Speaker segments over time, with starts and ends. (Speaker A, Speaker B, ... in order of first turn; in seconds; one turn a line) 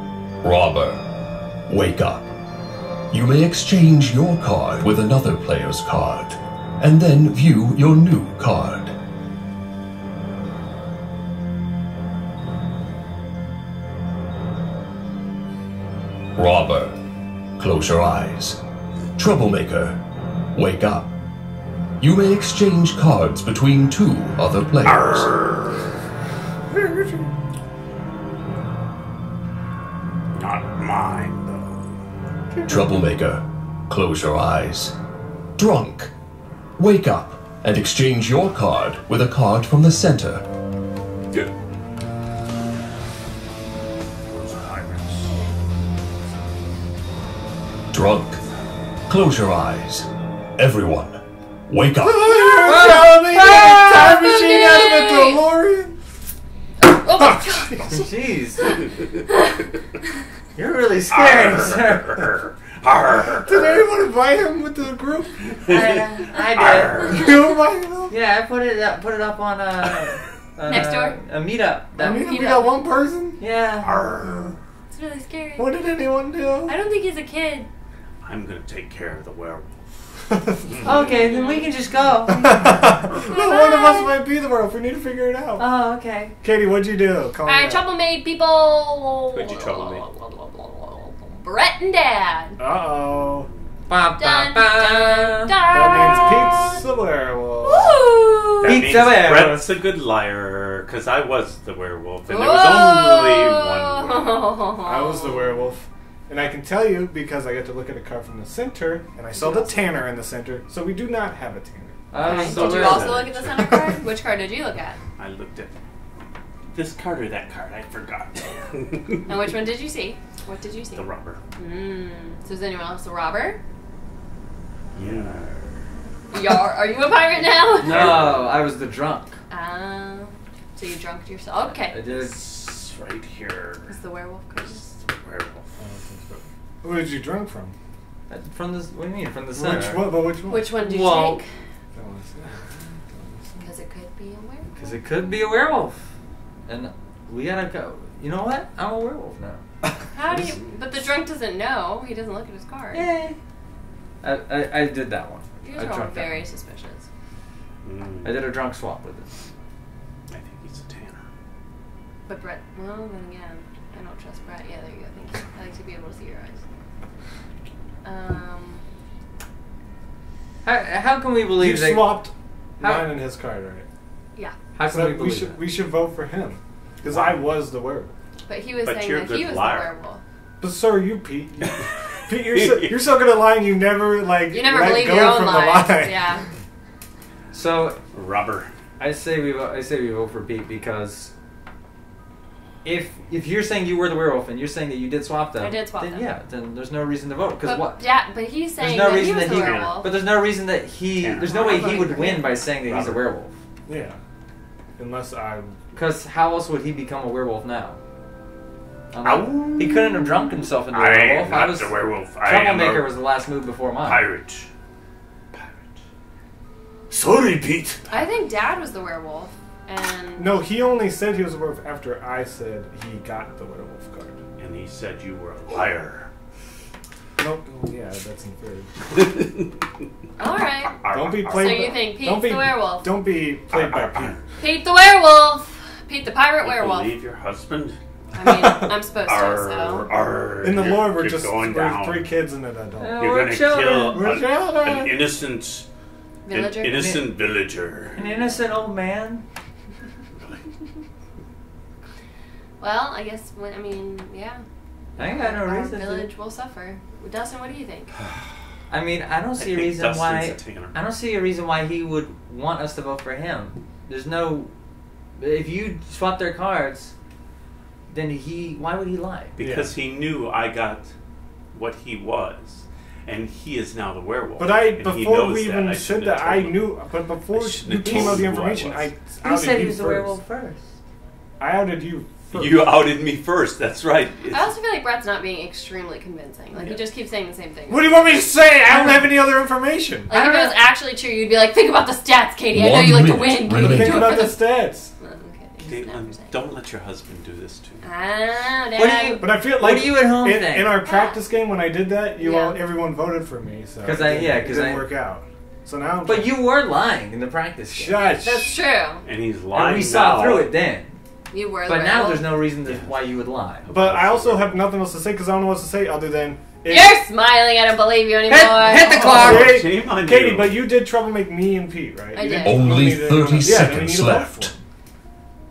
Speaker A: 0.4-1.0
Speaker A: 1.7-2.3
Speaker A: 3.1-8.9
Speaker A: 16.4-17.0
Speaker A: 17.6-18.6
Speaker A: 19.1-20.0
Speaker A: 20.5-21.1
Speaker A: 22.0-25.3
Speaker B: 24.8-25.6
Speaker C: 26.7-27.2
Speaker B: 30.3-31.9
Speaker A: 32.6-34.9
Speaker A: 35.6-36.1
Speaker A: 36.8-40.5
Speaker B: 44.3-45.3
Speaker D: 45.3-45.5
Speaker A: 47.9-48.4
Speaker A: 49.1-52.2
Speaker C: 52.0-56.0
Speaker D: 52.3-53.0
Speaker E: 52.6-54.3
Speaker D: 54.1-55.4
Speaker D: 56.8-57.8
Speaker C: 57.1-58.0
Speaker E: 57.8-58.7
Speaker E: 60.5-62.3
Speaker B: 61.1-63.8
Speaker C: 63.4-65.8
Speaker B: 65.7-65.9
Speaker E: 65.7-67.0
Speaker D: 65.8-66.3
Speaker B: 66.5-67.5
Speaker D: 66.9-67.5
Speaker C: 67.0-68.2
Speaker E: 68.1-72.6
Speaker D: 70.7-71.2
Speaker D: 72.0-72.8
Speaker C: 72.0-73.4
Speaker E: 73.4-73.9
Speaker B: 73.8-74.5
Speaker C: 74.0-74.5
Speaker D: 74.9-75.7
Speaker C: 75.6-76.8
Speaker D: 76.7-77.7
Speaker B: 78.2-79.9
Speaker B: 80.5-81.2
Speaker E: 80.8-82.9
Speaker D: 80.9-81.7
Speaker C: 82.3-85.6
Speaker D: 83.1-84.2
Speaker E: 85.6-86.3
Speaker C: 86.4-87.9
Speaker D: 87.5-92.6
Speaker B: 89.3-90.0
Speaker C: 92.6-93.5
Speaker E: 93.9-95.6
Speaker D: 94.2-96.8
Speaker C: 95.7-98.0
Speaker D: 97.6-98.8
Speaker B: 98.6-104.5
Speaker E: 98.6-99.7
Speaker D: 102.3-105.6
Speaker C: 104.8-112.0
Speaker D: 109.3-110.0
Speaker E: 112.1-113.3
Speaker D: 112.2-115.0
Speaker B: 112.2-113.7
Speaker C: 113.5-114.0
Speaker B: 115.2-115.8
Speaker B: 116.7-119.2
Speaker D: 119.3-123.6
Speaker B: 120.9-121.4
Speaker B: 124.9-125.7
Speaker D: 126.3-128.1
Speaker E: 127.7-129.4
Speaker B: 127.8-128.6
Speaker D: 129.5-132.1
Speaker E: 131.7-132.4
Speaker B: 132.1-133.9
Speaker D: 133.9-134.8
Speaker B: 134.6-135.7
Speaker C: 135.8-137.7
Speaker E: 138.3-141.4
Speaker C: 139.5-140.7
Speaker D: 140.5-141.5
Speaker C: 141.9-143.6
Speaker D: 143.6-144.9
Speaker E: 144.8-146.0
Speaker E: 146.7-149.6
Speaker D: 150.1-153.0
Speaker E: 152.9-153.4
Speaker E: 154.2-156.4
Speaker D: 155.6-157.1
Speaker B: 157.8-158.4
Speaker E: 158.2-159.3
Speaker B: 160.3-161.2
Speaker D: 162.3-166.6
Speaker D: 168.0-168.8
Speaker E: 170.6-172.2
Speaker C: 171.6-173.8
Speaker E: 172.8-173.1
Speaker E: 174.7-175.7
Speaker C: 174.8-178.1
Speaker B: 177.0-177.4
Speaker D: 178.5-180.2
Speaker B: 178.8-179.9
Speaker C: 180.6-186.3
Speaker B: 182.4-183.0
Speaker D: 184.5-186.4
Speaker E: 187.5-188.0
Speaker B: 188.1-188.7
Speaker E: 189.0-191.3
Speaker E: 192.8-198.0
Speaker D: 195.6-196.3
Speaker D: 197.6-200.1
Speaker E: 198.8-203.5
Speaker B: 199.2-200.0
Speaker B: 201.2-202.1
Speaker D: 201.5-202.6
Speaker B: 202.8-203.2
Speaker C: 203.9-204.2
Speaker C: 205.0-205.7
Speaker E: 205.9-208.0
Speaker E: 209.1-214.3
Speaker B: 209.2-213.1
Speaker B: 214.0-214.7
Speaker B: 215.5-216.0
Speaker E: 217.1-217.9
Speaker B: 217.8-218.2
Speaker D: 218.1-220.7
Speaker C: 220.4-224.4
Speaker B: 224.6-226.3
Speaker C: 227.4-228.9
Speaker D: 230.4-231.0
Speaker B: 230.9-231.9
Speaker C: 231.1-234.4
Speaker D: 231.5-233.1
Speaker B: 233.7-234.4
Speaker D: 234.6-237.1
Speaker B: 236.6-238.0
Speaker D: 238.3-240.1
Speaker B: 239.2-242.3
Speaker C: 240.6-243.2
Speaker E: 243.0-244.3
Speaker B: 243.2-245.8
Speaker C: 244.1-245.3
Speaker D: 246.4-247.3
Speaker B: 246.5-248.2
Speaker E: 248.1-249.4
Speaker D: 252.8-254.6
Speaker D: 255.2-258.2
Speaker E: 255.2-256.3
Speaker E: 258.9-264.7
Speaker B: 259.6-260.9
Speaker E: 265.4-267.1
Speaker E: 268.1-269.5
Speaker B: 269.6-271.1
Speaker C: 269.6-269.9
Speaker B: 271.7-279.1
Speaker C: 274.6-280.4
Speaker E: 279.4-280.9
Speaker C: 281.6-283.0
Speaker B: 282.5-284.7
Speaker D: 284.5-288.3
Speaker C: 287.9-290.3
Speaker D: 288.9-289.3
Speaker D: 290.3-296.6
Speaker E: 290.3-290.8
Speaker A: 292.7-294.5
Speaker C: 293.7-295.1
Speaker B: 295.8-298.0
Speaker D: 298.0-299.5
Speaker E: 298.9-301.0
Speaker C: 299.4-306.6
Speaker D: 301.0-301.4
Speaker D: 302.4-302.8
Speaker E: 304.0-305.1
Speaker E: 306.2-308.3
Speaker C: 307.9-308.8
Speaker D: 308.3-309.2
Speaker B: 309.2-310.7
Speaker E: 309.7-311.2
Speaker D: 311.5-312.5
Speaker E: 311.9-313.8
Speaker B: 312.8-313.1
Speaker B: 313.8-314.8
Speaker C: 313.9-317.2
Speaker D: 316.8-319.4
Speaker E: 318.5-319.8
Speaker B: 319.0-320.8
Speaker C: 319.3-324.7
Speaker D: 322.3-323.2
Speaker A: 322.6-324.7